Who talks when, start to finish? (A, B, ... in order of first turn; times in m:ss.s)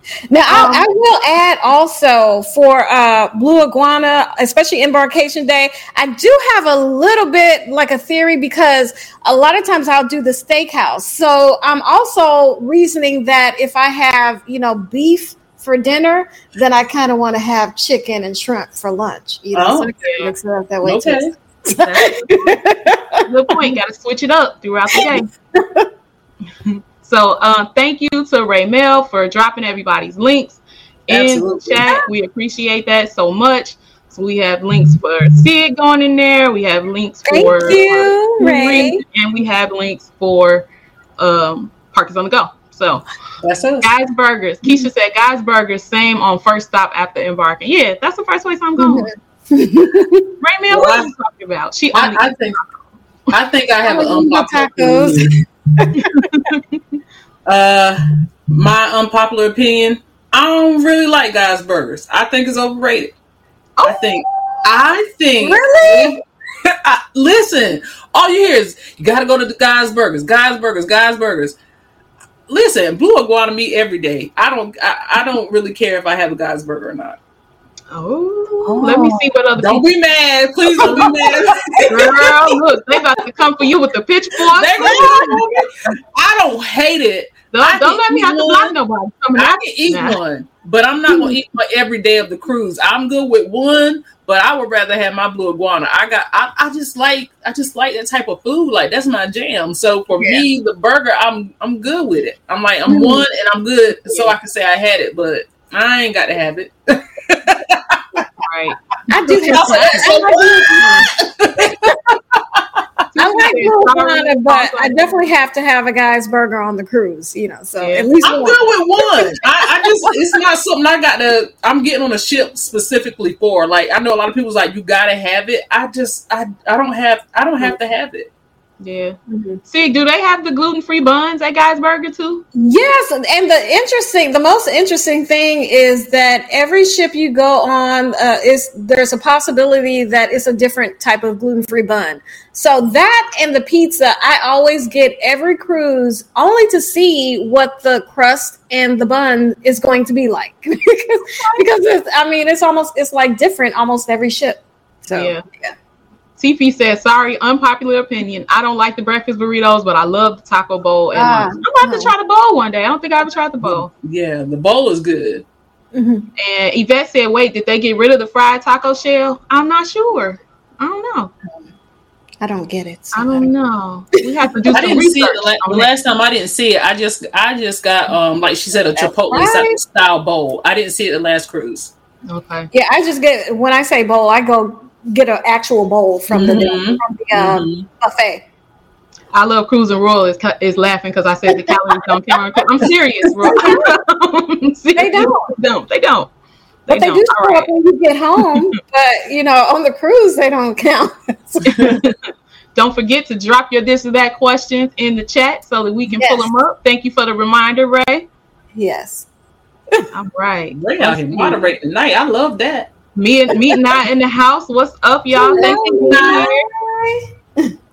0:00.3-0:23.7 A
0:00.5-0:00.9 B
0:19.5-0:19.9 C
0:20.0-0:20.3 B
0:20.8-0:21.3 C
0:21.7-0:22.6 B
0:23.2-0:25.3 B
0:24.9-0:25.9 A
0:26.6-0:40.7 B
0:31.1-0:31.8 C
0:37.2-0:39.0 A
0:41.2-0:43.0 B
0:43.4-0:43.9 C
0:43.8-0:49.1 B
0:48.8-0:50.3 A
0:50.4-0:52.7 B
0:50.7-0:51.1 C
0:51.9-0:52.6 C
0:53.3-0:55.4 C
0:53.8-0:56.3 A
0:56.0-0:56.8 B
0:57.4-1:03.1 C
1:03.8-1:04.1 B
1:03.8-1:11.6 C
1:04.2-1:04.6 A
1:05.4-1:06.2 A
1:12.5-1:17.2 C
1:17.9-1:19.8 B
1:18.6-1:19.3 A
1:19.6-1:22.2 C
1:20.8-1:22.5 A
1:21.9-1:25.9 B
1:24.5-1:28.7 C
1:24.8-1:25.4 A
1:27.5-1:30.2 B
1:29.3-1:48.2 C
1:31.1-1:31.4 A
1:40.2-1:40.4 A
1:42.9-1:43.2 A
1:48.4-1:50.1 B
1:49.1-1:51.1 A
1:49.5-1:52.8 C
1:53.1-1:55.2 B
1:53.2-2:00.1 A
1:57.8-1:58.3 B
1:58.2-2:08.3 C
2:08.8-2:12.4 B
2:09.3-2:09.6 A
2:12.5-2:35.7 A
2:35.1-2:35.4 B
2:36.4-2:43.9 B
2:41.1-2:42.1 A
2:43.6-2:45.4 C
2:45.9-2:46.3 A
2:46.4-2:51.3 B
2:52.4-2:53.5 A
2:53.1-2:55.9 B
2:54.7-3:01.9 C
2:54.7-2:55.0 A
2:59.0-2:59.8 A
3:02.3-3:02.7 B
3:02.7-3:08.4 A
3:06.3-3:07.9 C
3:09.3-3:16.3 B
3:13.4-3:13.9 A
3:15.0-3:15.5 A
3:16.9-3:17.7 B
3:16.9-3:21.8 A
3:21.6-3:22.2 B
3:22.7-3:28.2 B
3:26.2-3:26.5 A
3:28.7-3:29.3 A
3:30.1-3:31.6 B
3:30.8-3:32.9 C
3:33.1-3:36.5 B
3:35.4-3:37.7 A
3:35.5-3:36.6 C